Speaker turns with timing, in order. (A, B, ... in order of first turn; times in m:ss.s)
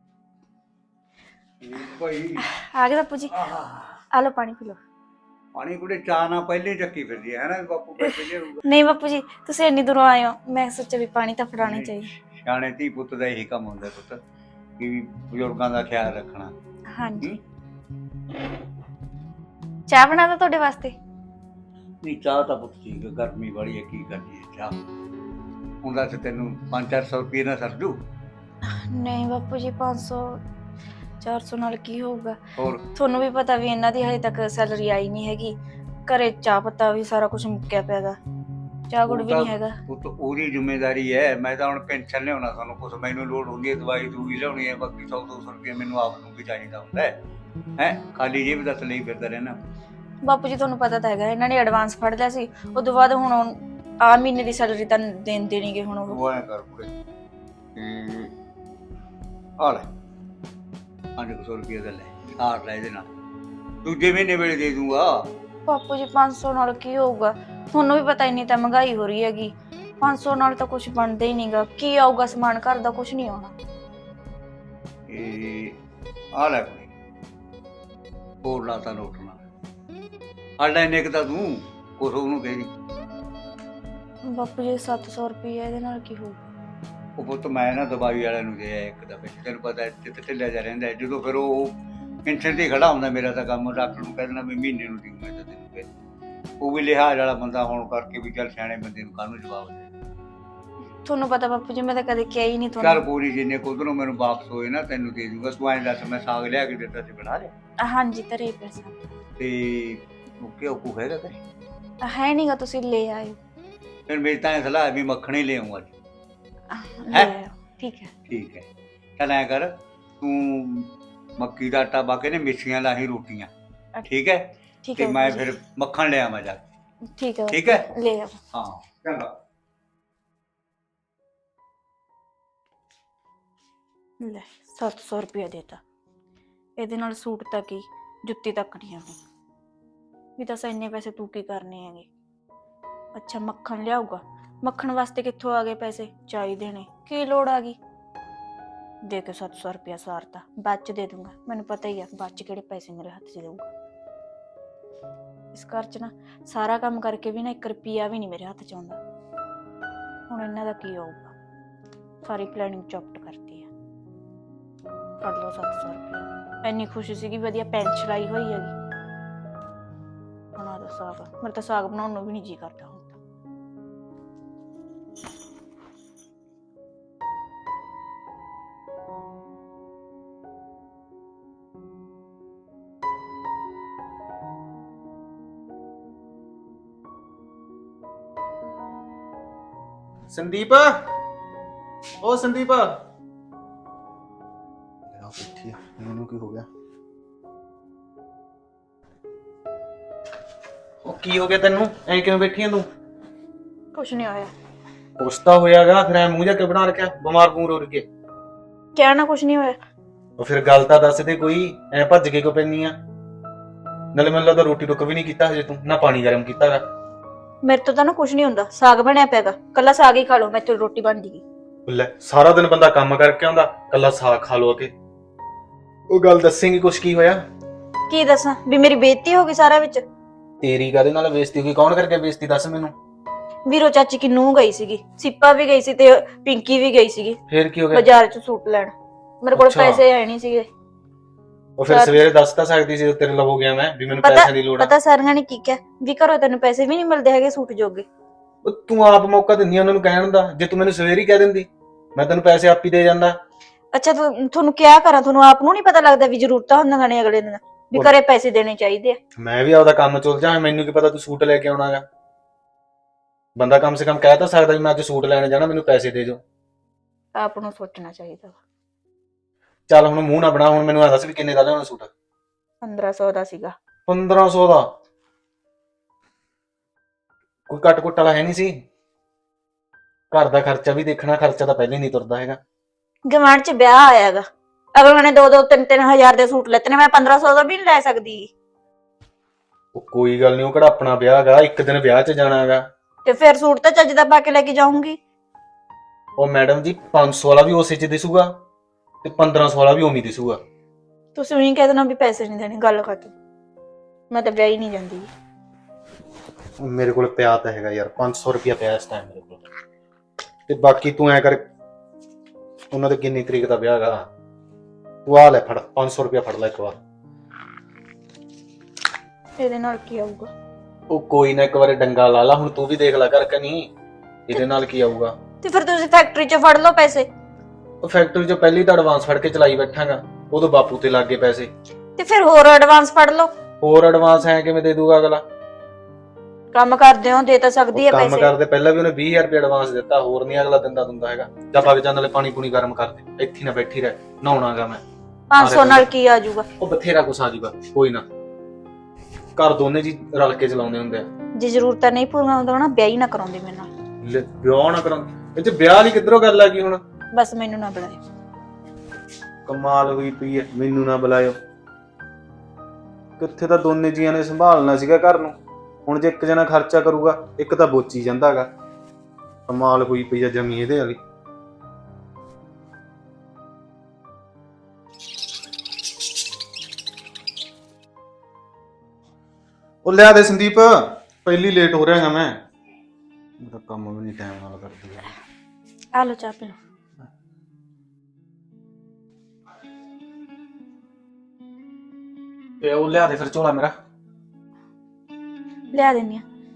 0:01.6-0:02.4 A
0:02.4-0:03.4 B
0:03.4-0:03.9 A
0:04.1-0:04.8 B
0:05.5-0:08.6 A
0:08.6-0:12.1 B
0:11.6-0:14.2 A
0:14.8-0:16.5 A
0:16.9-0:17.3 B
0:19.9-0:21.0 B
0:22.0-0:24.7 A
0:25.8-0:27.9 A
0:28.7-0:30.4 B
0:31.2-0:32.4 B
0:32.9-0:35.6 B
0:36.1-0:38.2 B
0:38.9-0:39.8 B
0:39.1-0:47.2 A
0:47.8-0:49.6 A
0:50.2-0:56.2 B
0:56.1-0:56.9 A
0:57.8-0:58.3 A
0:59.6-0:59.9 A
1:01.2-1:03.1 A
1:03.8-1:05.2 A
1:05.7-1:13.6 B
1:15.1-1:15.8 A
1:16.3-1:16.9 A
1:18.4-1:19.4 A
1:20.6-1:22.7 A
1:24.2-1:26.4 B
1:27.2-1:31.7 A
1:32.2-1:35.9 A
1:36.6-1:39.9 A
1:41.0-1:43.0 B
1:42.8-1:47.5 A
1:47.8-1:49.1 B
1:49.4-1:51.4 A
1:52.0-1:53.4 B
1:54.1-1:55.9 A
1:56.7-1:58.1 B
1:58.3-1:58.6 A
1:59.2-2:03.5 A
2:04.0-2:04.4 A
2:04.8-2:05.5 B
2:05.0-2:06.6 A
2:07.2-2:08.4 B
2:07.5-2:07.9 A
2:08.5-2:09.3 A
2:14.2-2:15.8 B
2:16.8-2:19.2 B
2:20.4-2:22.1 B
2:23.1-2:27.8 B
2:29.1-2:33.7 B
2:35.5-2:39.0 B
2:40.3-2:41.3 B
2:42.2-2:43.7 B
2:45.2-2:48.7 B
2:50.6-2:53.2 B
3:10.3-3:11.1 C
3:12.2-3:13.0 C
3:15.1-3:16.6 C
3:21.0-3:22.9 C
3:23.9-3:24.5 B
3:25.2-3:28.0 C
3:28.9-3:29.8 B
3:30.4-3:32.9 C
3:34.1-3:36.8 C
3:37.6-3:41.4 B
3:41.9-3:44.9 C
3:46.1-3:47.4 C
3:48.1-3:50.0 B
3:50.6-3:52.9 C
3:53.7-3:57.4 B
3:57.5-3:58.0 C
3:57.9-4:00.7 B
3:59.5-4:00.0 C
4:01.8-4:04.9 C
4:01.9-4:02.2 B
4:04.2-4:08.0 B
4:08.6-4:13.4 C
4:13.9-4:19.2 B
4:19.4-4:22.0 C
4:23.6-4:26.4 C
4:27.3-4:28.6 B
4:29.9-4:32.1 C
4:32.8-4:33.7 B
4:34.1-4:34.8 C
4:37.7-4:38.8 C
4:40.3-4:42.6 C
4:43.3-4:48.5 B
4:49.9-4:52.8 C
4:53.2-4:55.2 B
4:56.4-4:58.5 C
4:59.2-5:00.6 C
5:01.3-5:03.3 B
5:04.3-5:05.3 B
5:06.8-5:09.7 C
5:10.7-5:11.6 C
5:12.9-5:14.2 C
5:15.2-5:17.0 C
5:19.6-5:20.5 B
5:21.1-5:23.9 C
5:24.5-5:25.3 C
5:25.6-5:27.3 B
5:28.0-5:31.7 C
5:32.2-5:33.5 B
5:33.8-5:35.4 C
5:36.7-5:38.5 B
5:37.9-5:45.0 C
5:45.5-5:46.6 B
5:45.6-5:46.1 C
5:46.8-5:48.2 C
5:49.6-5:51.3 C
5:51.6-5:53.9 B
5:54.2-5:57.0 C
5:57.3-5:58.2 B
5:59.6-6:01.6 C
6:03.4-6:05.5 C
6:06.0-6:08.7 C
6:09.7-6:11.2 C
6:20.0-6:22.5 C
6:23.6-6:25.3 C
6:26.1-6:26.8 B
6:32.8-6:33.9 C
6:35.9-6:36.4 B